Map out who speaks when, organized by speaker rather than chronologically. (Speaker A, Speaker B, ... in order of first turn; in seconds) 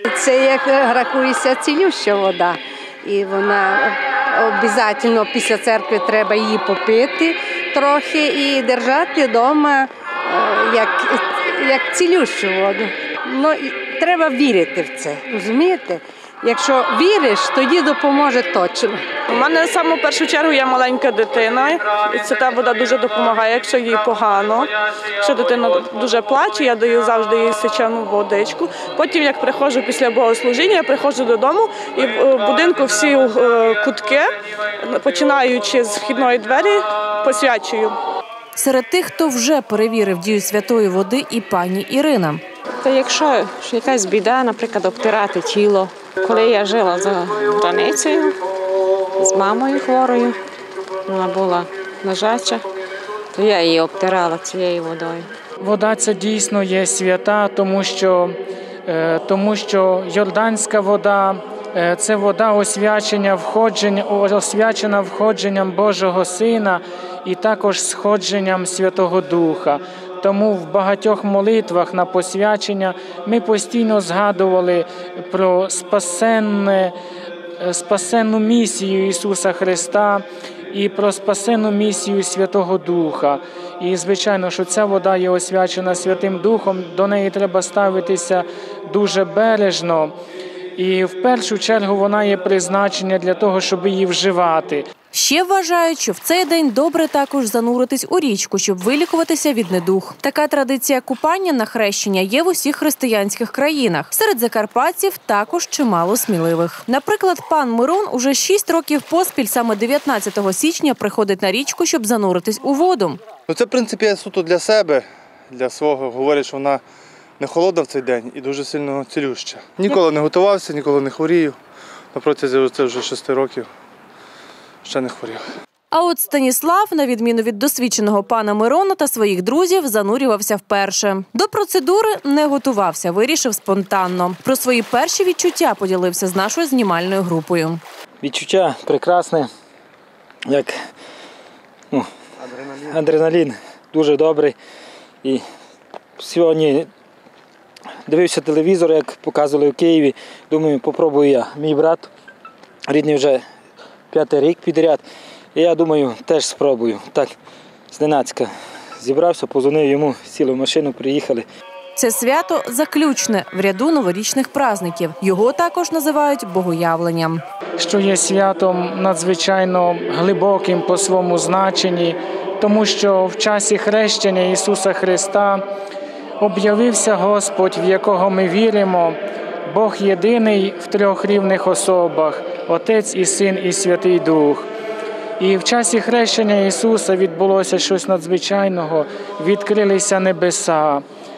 Speaker A: 0.1-19.0
Speaker B: 19.3-24.7, 25.2-34.3, 34.9-38.0
Speaker C: 38.6-42.4, 95.1-113.2, 125.9-137.8, 162.0-167.4
Speaker D: 42.8-48.4, 49.2-50.4, 51.1-52.6, 53.4-55.3
Speaker E: 55.6-76.9, 77.6-90.1, 90.8-94.8, 167.8-175.6, 176.4-184.7, 185.4-191.0
Speaker F: 113.5-116.8, 117.4-121.6, 122.1-123.7, 124.8-125.4
Speaker G: 138.2-139.5, 140.5-140.7, 141.9-144.6, 146.2-146.9, 148.1-152.1, 152.9-153.4, 154.1-155.0, 155.6-157.3, 157.9-161.4